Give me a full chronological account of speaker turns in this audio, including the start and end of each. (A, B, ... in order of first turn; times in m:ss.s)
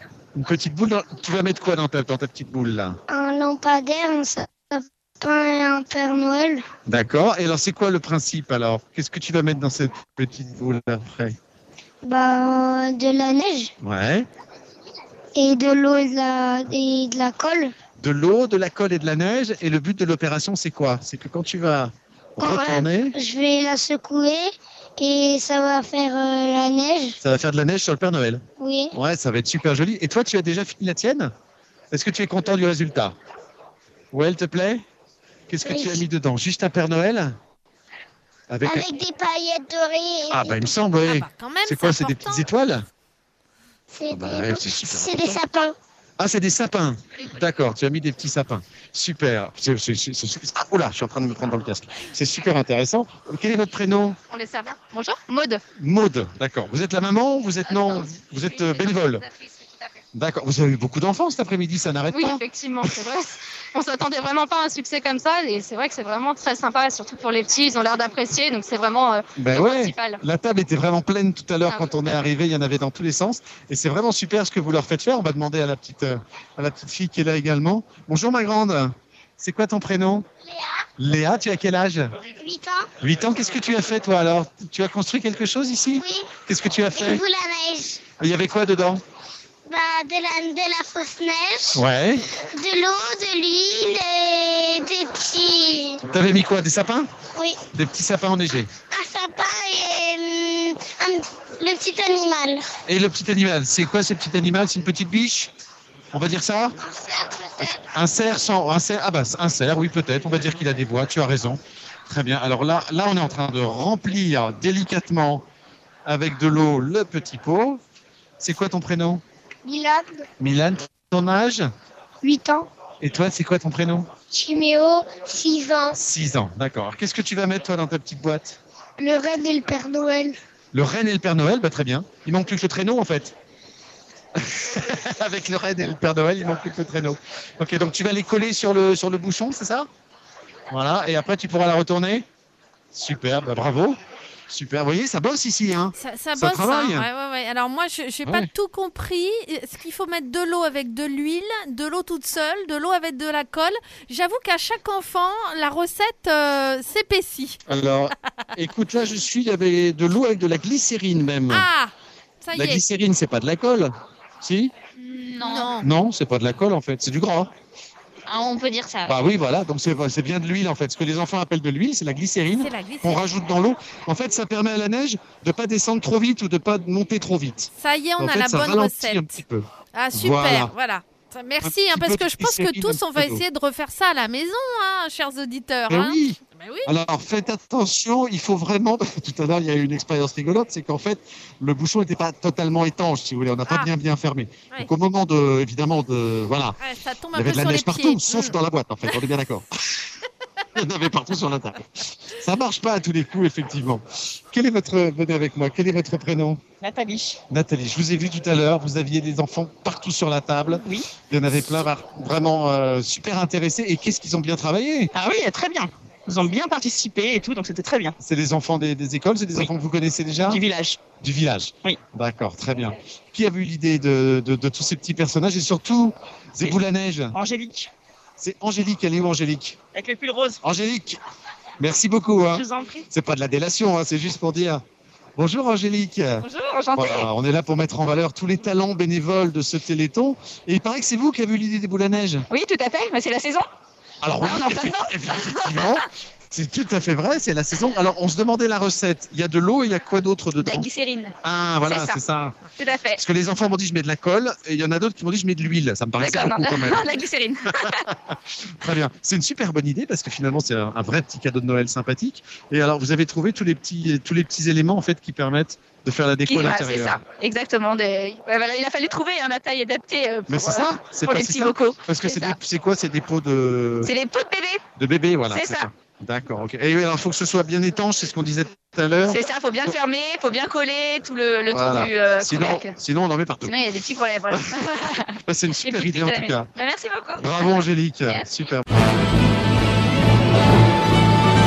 0:00.3-0:03.0 A
0:03.1-0:06.6 B
0:06.9-0:11.3 A
0:12.0-0:13.7 B
0:13.8-0:14.2 A
0:15.4-0:17.7 B
0:18.0-0:23.1 A
0:22.4-0:27.2 B
0:27.2-0:28.4 A
0:28.6-0:28.9 B
0:28.9-0:31.3 A
0:31.9-0:33.2 A
0:34.1-0:34.8 A
0:35.5-0:37.4 A
0:35.6-0:36.0 B
0:38.5-0:38.8 A
0:38.6-0:40.7 B
0:40.3-0:42.8 A
0:41.0-0:42.4 C
0:43.9-0:45.7 B
0:44.1-0:45.4 A
0:46.2-0:54.2 A
0:54.3-0:55.6 D
0:55.8-0:59.2 A
0:57.7-1:00.0 D
1:00.1-1:03.0 A
1:02.1-1:10.2 D
1:09.4-1:20.2 A
1:11.7-1:11.9 D
1:21.0-1:22.1 A
1:22.3-1:22.9 B
1:23.0-1:27.2 A
1:26.0-1:26.3 B
1:26.9-1:28.0 B
1:28.2-1:29.0 A
1:29.7-1:31.8 B
1:31.7-1:32.2 A
1:32.5-1:36.0 B
1:36.1-1:37.1 A
1:37.7-1:38.7 A
1:38.9-1:42.7 B
1:42.9-1:45.5 A
1:46.1-1:46.8 A
1:46.8-1:47.8 B
1:47.8-1:55.4 A
1:56.0-1:57.8 A
1:58.4-1:59.2 A
1:59.6-2:00.2 B
2:00.4-2:01.7 A
2:02.2-2:02.7 B
2:03.0-2:04.1 A
2:04.3-2:06.0 B
2:06.0-2:08.6 A
2:09.0-2:10.4 B
2:10.7-2:13.3 A
2:14.4-2:19.9 A
2:20.7-2:22.2 A
2:22.9-2:24.0 A
2:24.5-2:27.1 A
2:26.0-2:37.6 C
2:37.7-2:41.7 A
2:41.5-2:41.9 C
2:42.4-2:42.8 C
2:42.5-2:44.7 A
2:45.0-2:45.8 D
2:45.4-2:45.7 C
2:45.8-2:47.5 A
2:48.3-2:49.1 D
2:49.1-3:00.7 A
2:52.6-2:53.2 C
2:57.8-2:59.4 C
2:59.9-3:06.9 C
3:01.6-3:03.4 A
3:05.9-3:16.8 A
3:16.8-3:18.5 C
3:17.3-3:19.6 A
3:20.8-3:26.6 A
3:26.8-3:27.4 E
3:27.5-3:35.1 A
3:35.2-3:38.2 E
3:38.2-3:40.6 A
3:40.5-3:40.8 D
3:41.2-3:47.3 A
3:47.3-3:47.9 E
3:48.4-3:49.8 A
3:50.0-3:50.4 D
3:50.0-3:50.6 E
3:50.6-3:51.2 A
3:51.8-3:54.8 A
3:52.5-3:53.0 D
3:55.4-4:02.4 A
3:56.4-3:57.3 D
4:02.5-4:03.7 D
4:04.2-4:10.9 A
4:04.4-4:06.0 D
4:10.6-4:12.2 D
4:11.4-4:12.6 A
4:12.8-4:13.2 D
4:13.2-4:27.2 A
4:16.2-4:18.0 D
4:26.4-4:32.6 D
4:30.5-4:34.1 A
4:34.0-4:34.8 D
4:35.0-4:39.4 A
4:35.5-4:35.9 D
4:39.2-4:42.9 D
4:41.7-4:43.8 A
4:43.6-4:48.5 D
4:45.4-4:46.7 A
4:47.4-4:48.8 A